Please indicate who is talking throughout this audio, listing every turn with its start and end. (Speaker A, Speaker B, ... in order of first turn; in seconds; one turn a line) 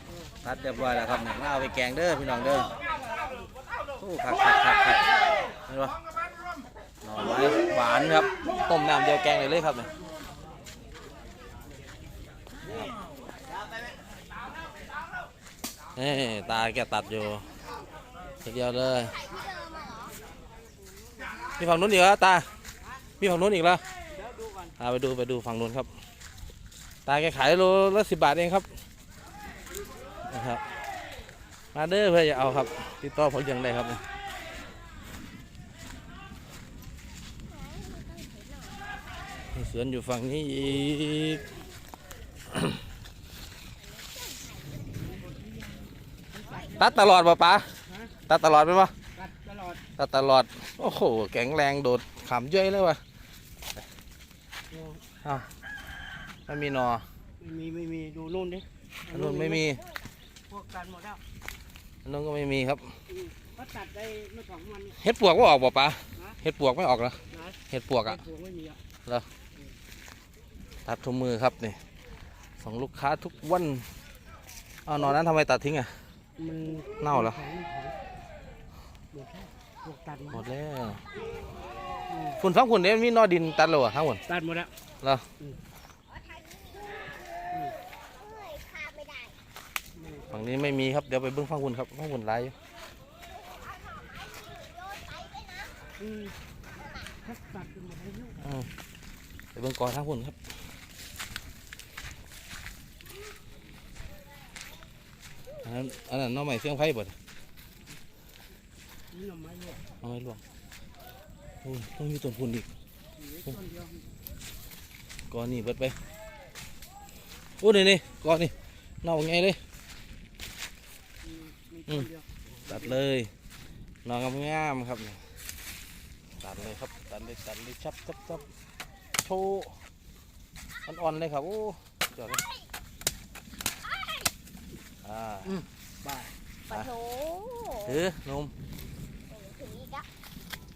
Speaker A: 0.4-2.7
Speaker A: 4.0-5.1
Speaker A: 5.7-6.0
Speaker A: 7.0-9.9
Speaker A: 15.9-17.5
Speaker A: 18.4-19.2
Speaker B: 19.2-20.1
Speaker A: 21.6-22.5
Speaker A: 23.2-23.8
Speaker A: 24.8-25.9
Speaker A: 27.1-28.7
Speaker A: 30.3-30.6
Speaker A: 31.7-34.0
Speaker B: 37.6-38.9
Speaker A: 39.5-41.4
Speaker B: 44.0-44.7
Speaker C: 46.3-46.7
Speaker A: 46.6-47.8
Speaker C: 47.9-48.1
Speaker A: 48.3-48.9
Speaker C: 49.1-49.8
Speaker A: 50.0-53.0
Speaker C: 54.7-55.0
Speaker A: 55.2-55.5
Speaker A: 56.5-57.0
Speaker C: 57.4-59.6
Speaker A: 59.1-59.8
Speaker C: 60.5-61.2
Speaker A: 62.0-63.0
Speaker C: 63.1-65.0
Speaker A: 64.9-68.2
Speaker C: 68.1-68.8
Speaker A: 70.8-71.8
Speaker A: 72.6-73.9
Speaker A: 74.8-76.0
Speaker C: 76.4-77.9
Speaker A: 77.0-77.5
Speaker C: 79.1-80.4
Speaker A: 80.3-81.0
Speaker C: 82.1-82.4
Speaker A: 82.4-84.2
Speaker C: 84.3-84.7
Speaker A: 85.0-85.3
Speaker B: 86.3-86.8
Speaker B: 88.2-89.4
Speaker C: 89.9-90.4
Speaker A: 90.3-92.5
Speaker B: 93.6-95.9
Speaker C: 96.0-96.3
Speaker C: 97.2-98.4
Speaker A: 98.4-98.7
Speaker A: 99.5-100.4
Speaker A: 105.6-107.1
Speaker C: 109.1-109.8
Speaker A: 110.0-110.4
Speaker A: 111.6-112.7
Speaker C: 113.3-114.0
Speaker A: 115.3-116.0
Speaker A: 117.6-119.6
Speaker C: 121.2-122.2
Speaker A: 122.7-123.3
Speaker A: 124.0-125.3
Speaker A: 126.4-128.4
Speaker A: 129.2-129.8
Speaker A: 130.8-132.4
Speaker A: 135.0-135.6
Speaker B: 136.8-137.8
Speaker A: 137.8-138.5
Speaker B: 139.3-140.1